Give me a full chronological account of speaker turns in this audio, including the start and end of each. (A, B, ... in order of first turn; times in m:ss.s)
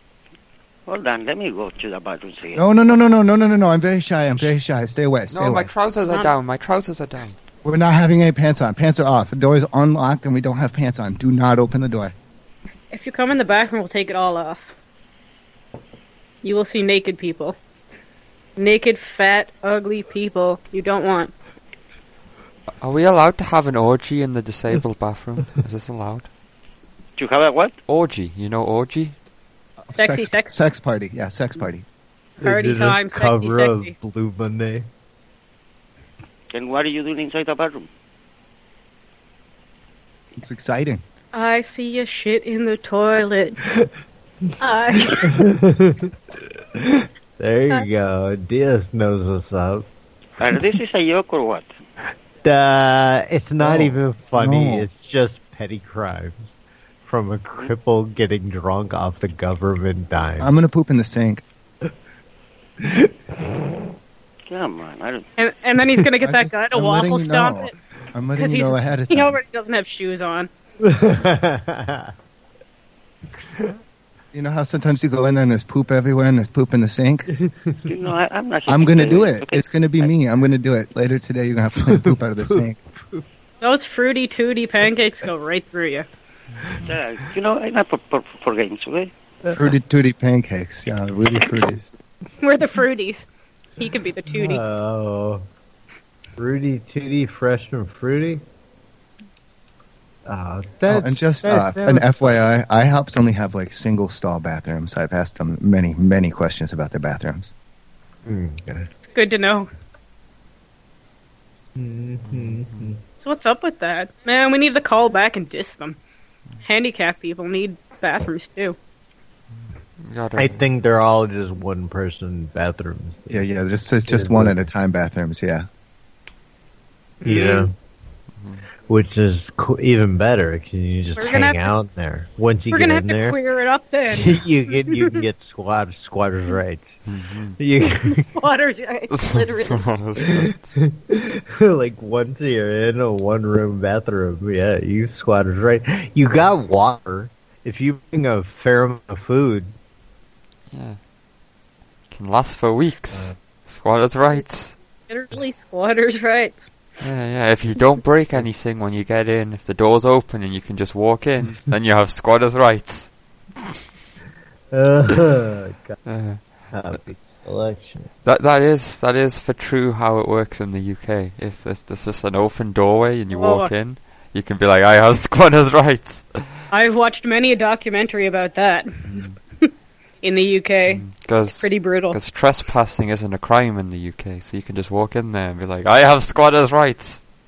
0:00.9-0:02.7 A
0:02.6-0:05.7 B
0:05.3-0:07.4 C
0:06.0-0:06.3 D
0:07.6-0:12.1 B
0:12.9-0:14.8 D
0:16.4-0:17.6 D
0:18.6-0:21.3 D
0:22.8-0:26.3 C
0:27.2-0:27.8 A
0:27.9-0:29.2 C
0:29.9-0:31.8 B
0:30.0-0:30.6 D
0:32.4-0:34.9 E
0:32.4-0:33.9 D
0:36.5-0:37.9 A
0:40.4-0:41.0 B
0:41.3-0:43.6 D
0:44.6-0:45.4 D
0:45.1-0:46.1 E
0:46.8-0:49.9 E
0:50.4-0:51.8 A
0:52.4-1:00.5 E
0:53.6-0:54.9 B
1:00.4-1:01.4 B
1:02.8-1:03.1 E
1:04.5-1:05.3 A
1:05.4-1:07.7 D
1:06.2-1:09.4 B
1:08.4-1:10.5 D
1:10.8-1:12.1 E
1:14.3-1:17.3 B
1:17.4-1:17.8 E
1:17.9-1:20.1 A
1:18.7-1:22.8 B
1:21.9-1:23.2 E
1:23.6-1:26.1 D
1:26.8-1:29.1 A
1:29.5-1:31.9 B
1:32.4-1:33.2 D
1:33.8-1:34.6 D
1:34.3-1:35.4 E
1:36.4-1:38.4 E
1:40.3-1:42.5 E
1:40.9-1:47.5 B
1:48.2-1:48.9 E
1:49.0-1:49.7 D
1:51.8-1:53.0 E
1:52.3-1:52.9 C
1:53.2-1:56.0 D
1:56.6-1:58.8 D
1:59.6-2:00.6 C
2:00.4-2:03.4 E
2:03.3-2:05.7 B
2:04.1-2:04.7 E
2:07.2-2:07.7 D
2:07.2-2:07.7 E
2:08.4-2:08.6 C
2:08.9-2:13.4 E
2:11.2-2:11.7 D
2:12.7-2:15.2 D
2:14.1-2:17.0 E
2:17.1-2:17.6 C
2:17.6-2:18.3 E
2:18.0-2:19.9 D
2:19.1-2:20.8 C
2:20.2-2:29.7 E
2:30.7-2:31.0 C
2:32.1-2:34.8 C
2:35.1-2:36.7 D
2:37.0-2:43.1 C
2:44.7-2:46.0 E
2:46.1-2:47.0 C
2:46.7-2:48.1 E
2:48.2-2:56.5 C
2:53.3-2:53.7 D
2:56.7-2:59.7 D
2:59.1-2:59.4 C
3:00.2-3:02.2 D
3:00.9-3:07.2 C